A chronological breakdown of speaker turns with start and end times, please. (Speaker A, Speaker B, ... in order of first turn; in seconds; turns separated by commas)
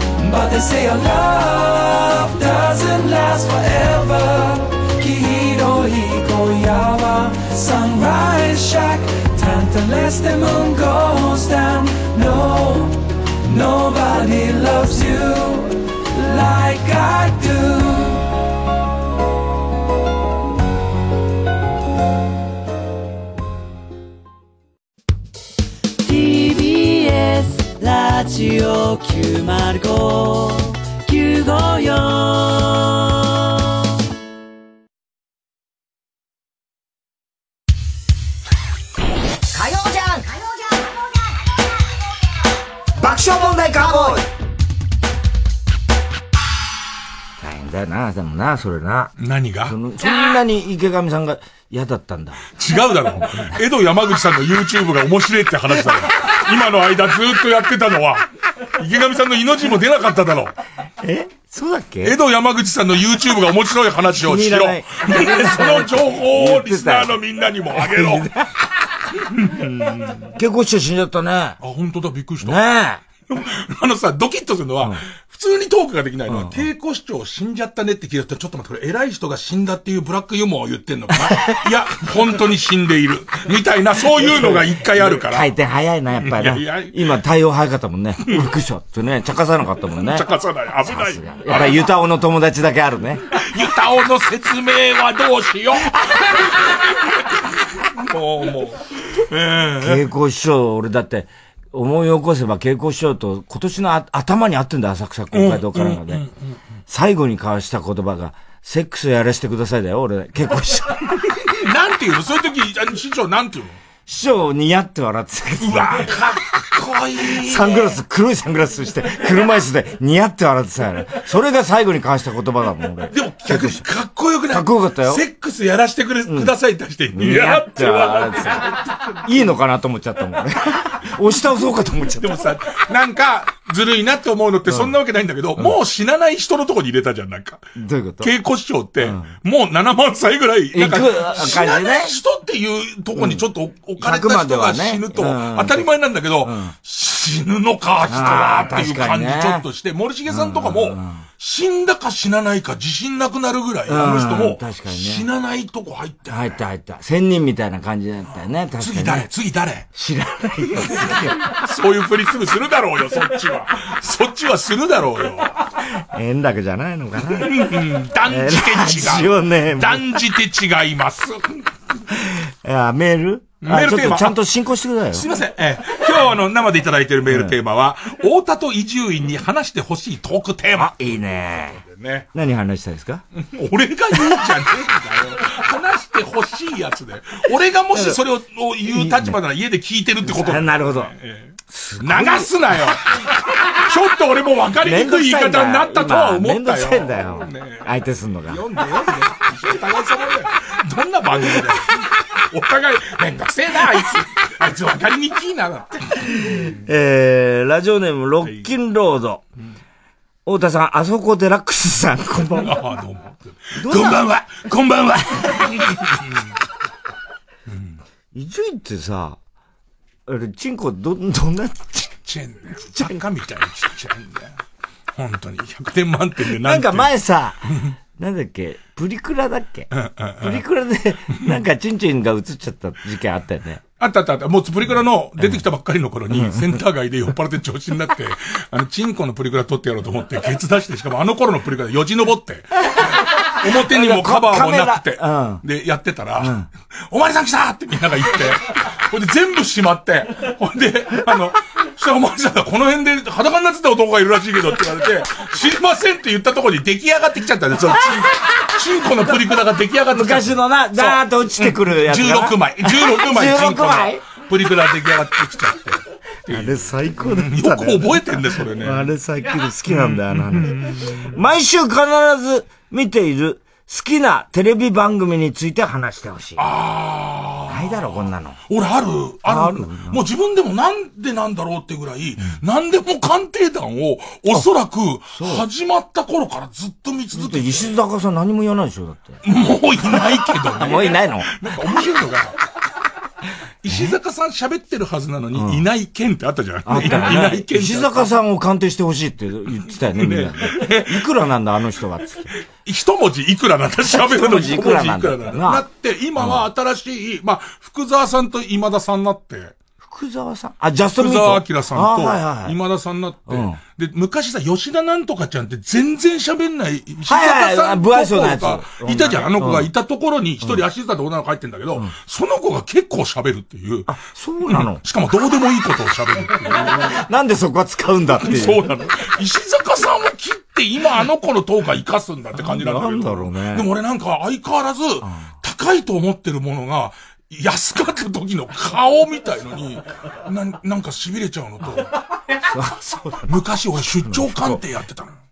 Speaker A: 0.2-18.2, Speaker B: 26.0-33.2, Speaker C: 39.5-41.3, Speaker C: 43.0-44.3, Speaker D: 47.4-49.1, Speaker E: 49.2-49.8, Speaker D: 49.7-52.4, Speaker E: 52.6-60.5, Speaker D: 61.0-62.2, Speaker E: 62.0-68.3, Speaker D: 64.2-67.2, Speaker D: 67.7-68.5, Speaker E: 69.2-70.3, Speaker D: 70.4-71.6, Speaker E: 71.6-72.6, Speaker D: 72.4-73.0, Speaker E: 73.3-85.5, Speaker D: 76.3-76.6, Speaker D: 84.2-90.3, Speaker E: 86.2-87.0, Speaker E: 90.1-91.9, Speaker D: 90.8-93.2, Speaker E: 93.3-97.2, Speaker E: 97.7-100.0, Speaker D: 99.8-106.2, Speaker E: 105.3-106.6, Speaker D: 106.9-111.4, Speaker E: 111.6-113.8, Speaker D: 114.1-116.1, Speaker E: 115.6-118.0, Speaker D: 117.3-123.8, Speaker E: 123.1-128.8, Speaker D: 124.5-125.2, Speaker D: 126.3-126.5, Speaker D: 127.1-128.7, Speaker D: 129.2-132.4, Speaker E: 132.2-137.6, Speaker D: 134.7-134.9, Speaker D: 137.8-138.3, Speaker E: 138.2-156.6, Speaker D: 139.0-139.3, Speaker D: 140.7-142.2, Speaker D: 143.2-143.4, Speaker D: 144.0-145.9, Speaker D: 146.4-146.7, Speaker D: 148.1-149.7, Speaker D: 150.3-151.2, Speaker D: 153.9-155.3, Speaker D: 156.3-159.3, Speaker E: 158.8-159.9, Speaker D: 159.9-161.4, Speaker E: 160.9-165.6, Speaker D: 165.9-170.1, Speaker E: 167.3-171.7, Speaker D: 172.1-175.3, Speaker E: 173.6-174.4, Speaker E: 175.1-182.3, Speaker D: 177.3-177.6, Speaker D: 180.8-181.8, Speaker D: 182.3-183.2, Speaker E: 183.3-193.1, Speaker D: 187.9-188.2, Speaker D: 188.9-189.4, Speaker D: 190.2-191.1, Speaker D: 191.7-192.9, Speaker E: 193.7-197.9, Speaker D: 194.8-198.6, Speaker E: 198.5-206.7, Speaker D: 206.3-209.4, Speaker D: 210.5-212.8, Speaker E: 212.6-216.6, Speaker D: 213.8-214.2, Speaker E: 217.7-218.0, Speaker D: 218.3-219.4, Speaker D: 220.3-222.2, Speaker E: 222.2-224.6, Speaker E: 225.2-227.1, Speaker D: 226.5-227.6, Speaker D: 228.2-229.9, Speaker E: 229.9-230.6, Speaker D: 230.4-233.8, Speaker E: 234.0-246.5, Speaker D: 235.4-235.6, Speaker D: 236.3-236.8, Speaker D: 243.8-245.6, Speaker D: 246.4-246.7, Speaker E: 247.1-269.1, Speaker D: 260.1-264.2, Speaker D: 266.5-268.2, Speaker D: 268.8-276.7, Speaker E: 269.9-271.3, Speaker E: 276.6-287.9, Speaker D: 277.7-278.6, Speaker D: 279.5-280.2, Speaker D: 285.3-285.7, Speaker D: 287.3-289.4, Speaker E: 289.4-292.6, Speaker D: 290.7-291.5, Speaker E: 293.8-298.3, Speaker D: 295.5-295.9, Speaker D: 296.9-302.5, Speaker E: 300.1-301.2, Speaker E: 302.8-309.8, Speaker D: 304.0-305.8, Speaker D: 306.4-306.7, Speaker D: 310.0-312.8, Speaker E: 311.2-324.1, Speaker D: 313.5-313.8, Speaker D: 317.3-319.9, Speaker D: 324.1-325.0, Speaker E: 324.6-327.1, Speaker D: 326.8-328.8, Speaker E: 328.4-342.1, Speaker D: 332.5-333.9, Speaker D: 335.2-335.5, Speaker D: 342.7-343.6, Speaker E: 343.5-345.4, Speaker D: 344.2-344.8